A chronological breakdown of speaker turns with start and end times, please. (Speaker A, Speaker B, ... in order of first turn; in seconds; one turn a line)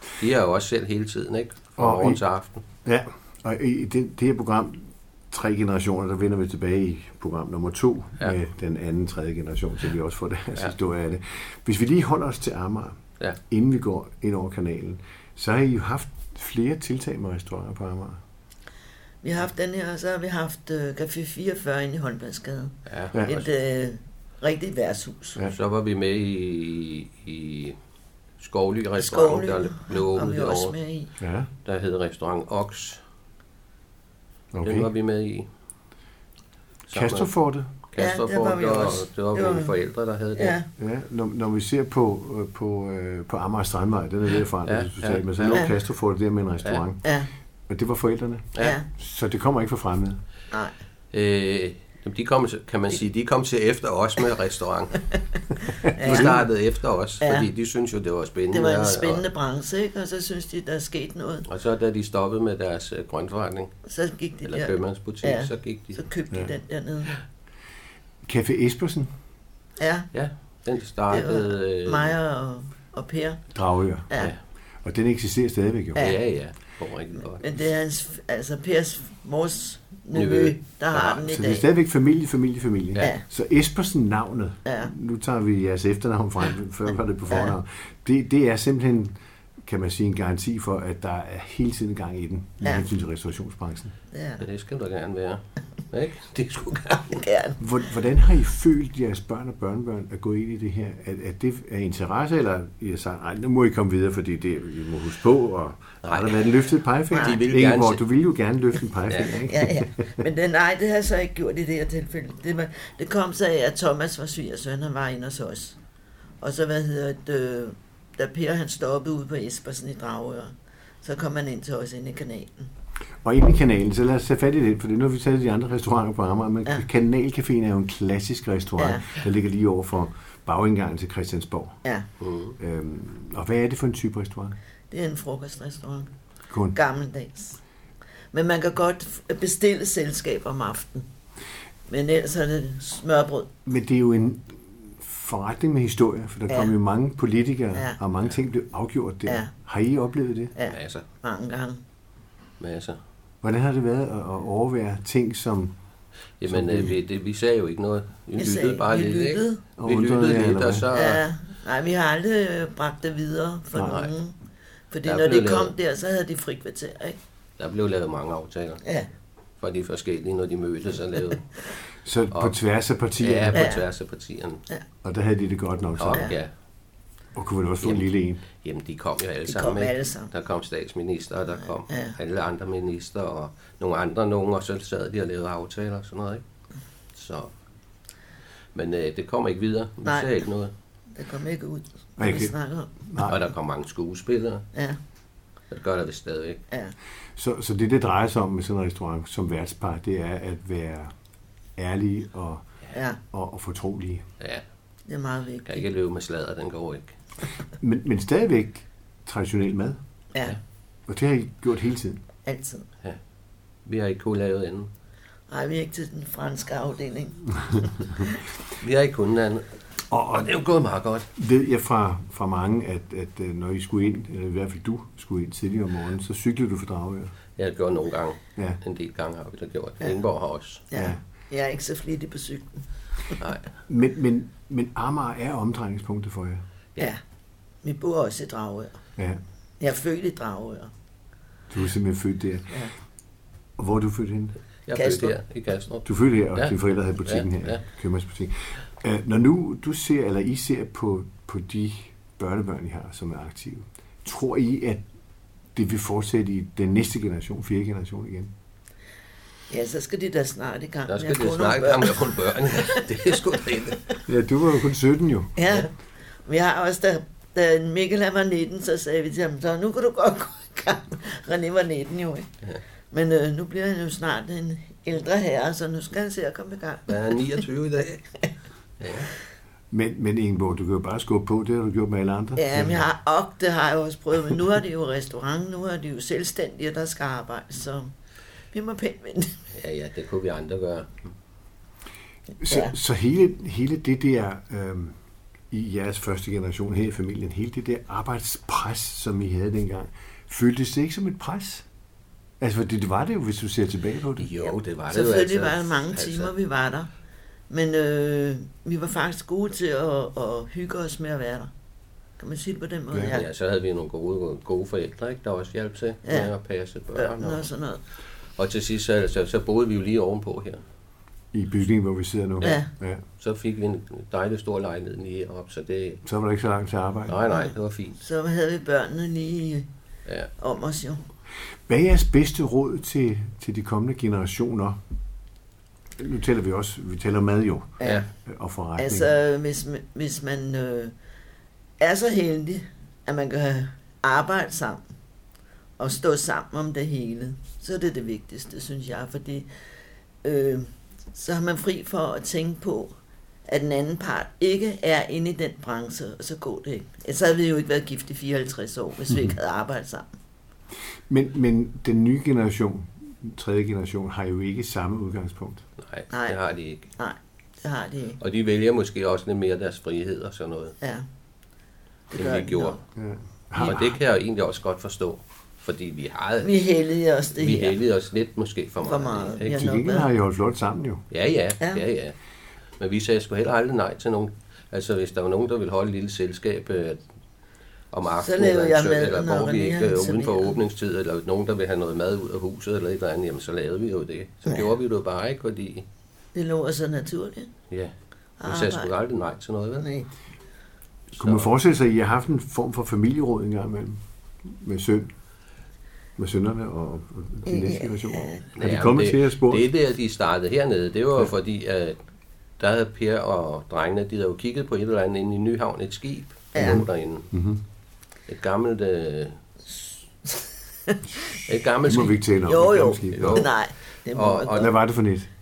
Speaker A: 0.2-2.6
Speaker B: 1.8-2.2
Speaker B: 2.9-18.2
Speaker C: 19.2-25.4
Speaker A: 22.9-23.4
Speaker B: 23.1-23.4
Speaker A: 25.5-27.8
Speaker A: 28.4-30.8
Speaker C: 29.0-31.1
Speaker B: 31.2-31.5
Speaker A: 31.6-33.0
Speaker B: 34.5-34.9
Speaker A: 34.6-35.5
Speaker A: 36.9-37.3
Speaker B: 36.9-37.7
Speaker A: 37.9-40.6
Speaker C: 38.0-39.7
Speaker C: 40.4-40.7
Speaker B: 40.8-50.2
Speaker A: 44.6-45.7
Speaker C: 47.0-47.3
Speaker C: 48.6-48.9
Speaker A: 51.1-55.0
Speaker C: 55.7-56.5
Speaker B: 55.9-56.5
Speaker A: 56.0-59.2
Speaker C: 57.2-57.5
Speaker C: 58.5-61.5
Speaker A: 61.5-63.8
Speaker C: 63.9-67.1
Speaker A: 64.5-66.0
Speaker B: 68.2-69.1
Speaker C: 69.8-70.1
Speaker A: 70.1-72.2
Speaker C: 71.1-73.4
Speaker B: 73.5-74.1
Speaker B: 74.8-76.1
Speaker A: 76.0-77.6
Speaker C: 77.4-81.7
Speaker A: 80.1-81.2
Speaker B: 81.2-93.9
Speaker C: 83.0-83.2
Speaker C: 84.7-84.9
Speaker C: 94.1-94.4
Speaker A: 94.4-97.3
Speaker C: 97.1-97.6
Speaker B: 97.6-110.1
Speaker A: 106.0-106.6
Speaker C: 107.1-107.4
Speaker A: 107.1-108.0
Speaker A: 109.1-109.5
Speaker C: 109.5-115.8
Speaker C: 116.4-122.7
Speaker B: 123.2-131.8
Speaker C: 128.8-129.1
Speaker A: 132.2-132.6
Speaker B: 132.6-134.6
Speaker C: 134.9-136.1
Speaker B: 136.5-136.8
Speaker C: 136.7-137.6
Speaker C: 138.3-141.1
Speaker C: 141.9-143.5
Speaker B: 143.7-150.5
Speaker C: 149.3-149.5
Speaker C: 150.6-151.8
Speaker A: 150.7-151.0
Speaker A: 152.6-153.0
Speaker B: 153.4-155.7
Speaker A: 156.4-161.2
Speaker B: 156.5-156.9
Speaker C: 158.4-159.6
Speaker B: 159.8-160.9
Speaker C: 160.9-164.3
Speaker A: 163.8-164.1
Speaker C: 164.9-167.2
Speaker A: 165.1-165.7
Speaker A: 167.6-168.8
Speaker C: 168.8-169.1
Speaker A: 169.6-171.5
Speaker B: 172.0-173.7
Speaker A: 173.2-174.6
Speaker C: 173.5-173.8
Speaker B: 175.0-176.3
Speaker A: 176.0-176.5
Speaker B: 177.3-178.4
Speaker A: 178.6-186.4
Speaker C: 179.5-180.3
Speaker C: 181.9-182.2
Speaker A: 187.1-187.5
Speaker A: 188.8-190.7
Speaker C: 190.1-190.3
Speaker C: 191.2-192.9
Speaker B: 192.2-193.4
Speaker A: 193.2-194.7
Speaker A: 195.7-196.6
Speaker B: 197.4-201.1
Speaker B: 201.8-202.7
Speaker C: 202.9-203.2
Speaker B: 203.3-204.3
Speaker C: 205.1-205.8
Speaker A: 205.7-207.1
Speaker B: 207.8-210.0
Speaker B: 211.1-212.2
Speaker C: 212.5-212.9
Speaker A: 213.9-214.9
Speaker C: 215.5-218.4
Speaker A: 218.8-221.3
Speaker B: 220.1-220.5
Speaker B: 221.4-227.3
Speaker A: 227.6-230.9
Speaker C: 230.9-233.4
Speaker B: 230.9-231.2
Speaker B: 233.9-236.6
Speaker C: 237.8-239.0
Speaker C: 239.8-240.9
Speaker B: 241.7-242.7
Speaker B: 243.8-244.6
Speaker A: 244.9-247.8
Speaker C: 244.9-245.3
Speaker B: 246.1-255.0
Speaker B: 255.8-258.5
Speaker C: 259.7-263.4
Speaker A: 261.1-264.2
Speaker B: 264.3-265.5
Speaker C: 265.6-265.9
Speaker C: 266.5-272.5
Speaker C: 273.1-277.6
Speaker A: 277.1-278.2
Speaker A: 279.0-279.3
Speaker B: 279.9-283.0
Speaker C: 282.6-288.1
Speaker C: 288.7-289.6
Speaker A: 289.7-291.3
Speaker B: 292.6-295.2
Speaker C: 292.6-292.9
Speaker B: 295.7-301.9
Speaker B: 302.6-304.5
Speaker A: 304.4-306.5
Speaker C: 305.1-307.1
Speaker C: 307.7-311.7
Speaker C: 312.4-313.5
Speaker A: 313.2-317.7
Speaker C: 316.2-316.5
Speaker C: 317.1-318.0
Speaker A: 318.6-320.8
Speaker B: 321.5-323.2
Speaker C: 322.6-322.9
Speaker A: 323.4-326.2
Speaker B: 326.2-327.4
Speaker A: 327.3-328.2
Speaker C: 327.5-329.9
Speaker C: 330.6-331.2
Speaker B: 331.9-335.0
Speaker B: 336.2-339.3
Speaker C: 338.0-338.2
Speaker C: 339.0-341.1
Speaker C: 342.0-345.0
Speaker C: 346.0-349.7
Speaker C: 350.4-353.1
Speaker C: 353.7-360.3
Speaker B: 361.3-365.8
Speaker A: 366.0-367.1
Speaker C: 366.3-366.6
Speaker C: 367.2-368.4
Speaker A: 368.4-371.0
Speaker C: 371.0-371.3
Speaker C: 372.3-373.0
Speaker A: 372.4-373.0
Speaker B: 373.2-374.2
Speaker A: 373.8-376.9
Speaker C: 376.6-378.0
Speaker A: 377.5-379.9
Speaker C: 379.0-380.3
Speaker B: 379.7-381.2
Speaker A: 381.3-382.4
Speaker A: 383.0-387.2
Speaker A: 388.1-396.1
Speaker C: 388.4-390.8
Speaker C: 396.6-397.7
Speaker C: 398.6-399.1
Speaker A: 398.6-400.1
Speaker C: 400.0-400.3
Speaker B: 401.3-405.3
Speaker A: 401.4-401.7
Speaker B: 406.4-409.9
Speaker C: 407.7-408.7
Speaker A: 408.8-412.2
Speaker A: 412.8-417.5
Speaker C: 416.7-417.0
Speaker B: 416.8-417.8
Speaker A: 418.5-419.6
Speaker C: 420.5-421.6
Speaker A: 421.6-422.4
Speaker B: 422.0-423.7
Speaker C: 422.7-424.9
Speaker A: 423.3-423.8
Speaker A: 424.3-424.9
Speaker B: 424.8-425.5